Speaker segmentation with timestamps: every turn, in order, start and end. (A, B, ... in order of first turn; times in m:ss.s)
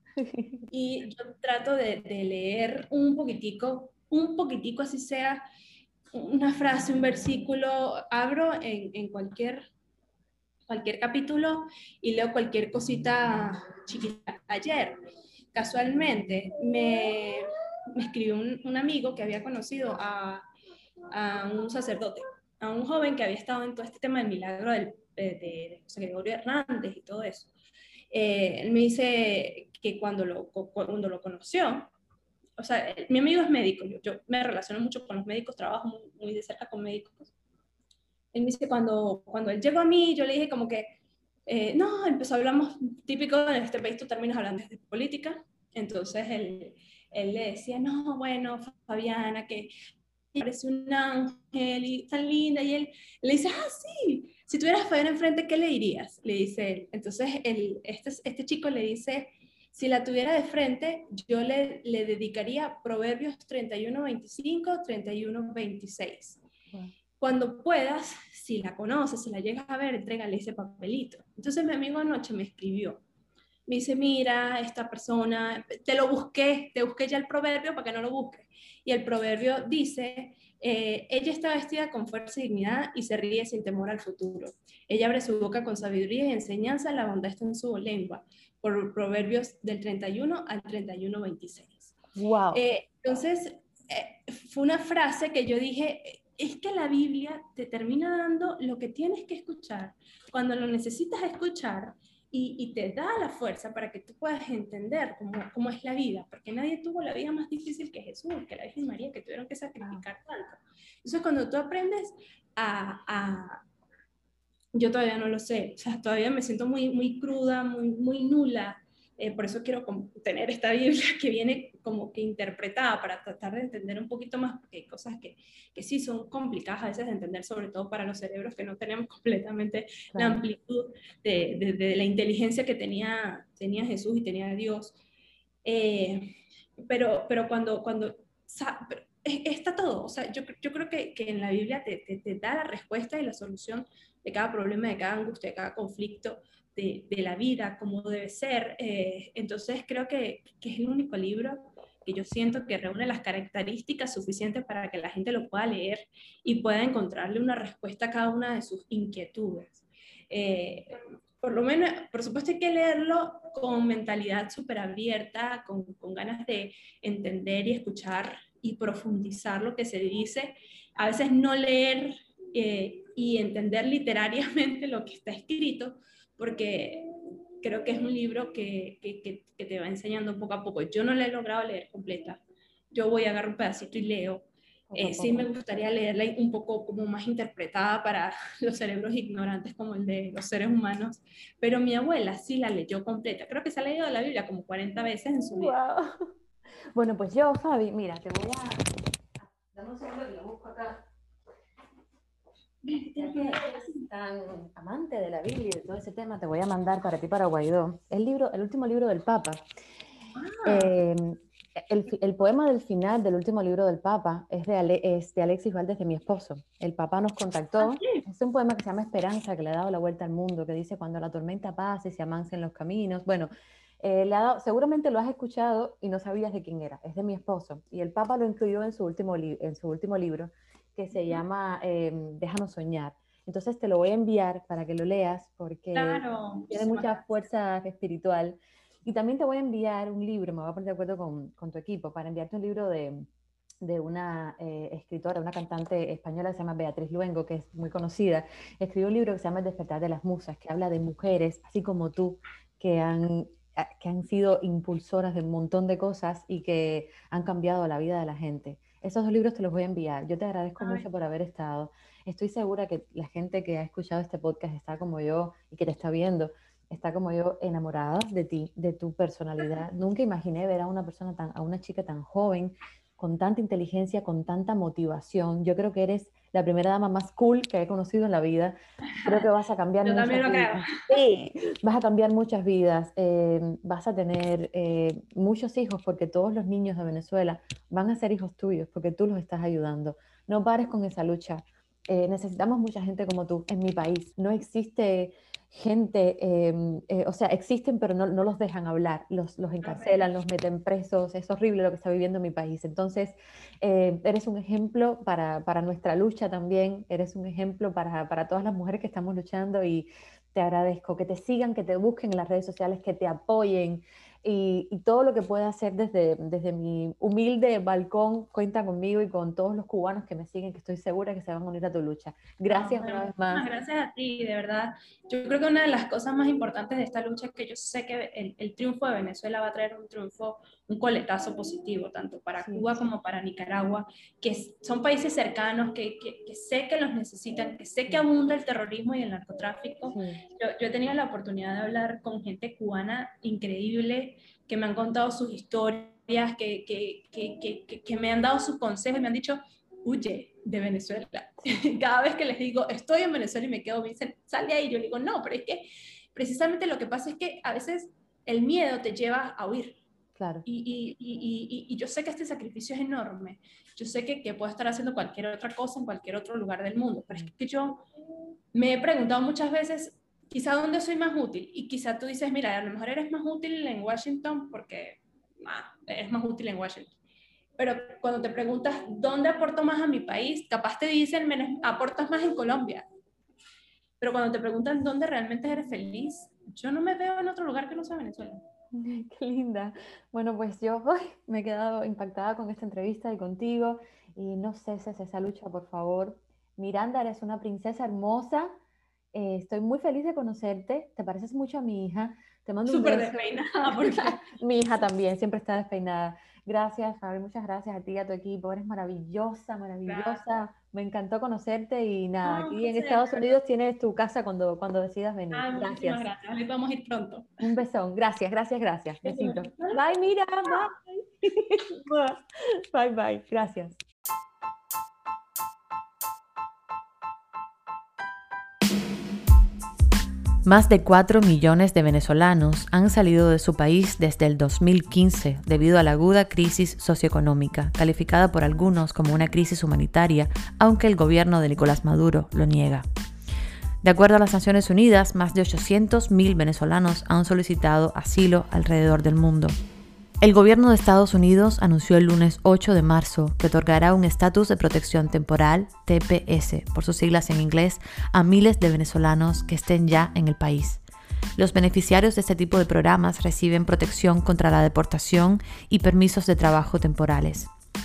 0:00.2-0:00.7 A
0:00.7-0:05.4 B
0:06.1-0:09.6 B
0:10.7-0:15.0 B
0:15.5-0:20.4 B
0:21.1-0:27.5 B
0:28.1-0:31.9 B
0:32.6-0:37.3 B
0:38.3-0:41.0 B
0:41.5-0:49.7 B
0:50.4-1:06.4 B
1:07.2-1:13.0 B
1:13.7-1:32.0 B
1:32.2-1:32.6 A
1:32.5-1:53.6 B
1:54.7-2:15.0 B
2:10.1-2:10.4 A
2:15.6-2:57.1 B
2:57.6-3:02.4 B
3:02.9-3:15.8 B
3:04.9-3:05.5 A
3:15.5-3:16.3 A
3:16.9-3:18.8 A
3:19.4-3:21.0 A
3:22.8-3:24.0 B
3:23.1-3:29.6 A
3:30.4-3:30.9 B
3:30.6-3:43.5 A
3:37.8-3:38.2 B
3:44.0-4:03.3 A
3:51.2-3:51.4 B
3:55.9-3:57.4 B
4:03.8-5:23.6 A
4:20.8-4:21.1 B
4:39.1-4:39.4 B
4:40.0-4:41.2 B
4:59.8-5:00.2 B
5:22.7-6:00.0 B
5:32.6-5:33.1 A
5:40.1-5:40.4 A
6:00.4-6:00.7 A
6:00.7-6:08.0 B
6:08.7-6:17.1 B
6:17.8-6:23.1 B
6:24.2-6:28.6 B
6:28.9-6:38.8 A
6:39.3-6:56.3 A
6:42.9-6:44.4 B
6:50.0-6:50.4 B
6:52.4-6:53.6 B
6:55.5-6:57.5 B
6:57.6-7:04.0 A
6:59.2-7:00.2 B
7:10.6-7:23.1 C
7:24.0-7:29.8 C
7:30.4-7:41.0 C
7:41.6-7:47.7 C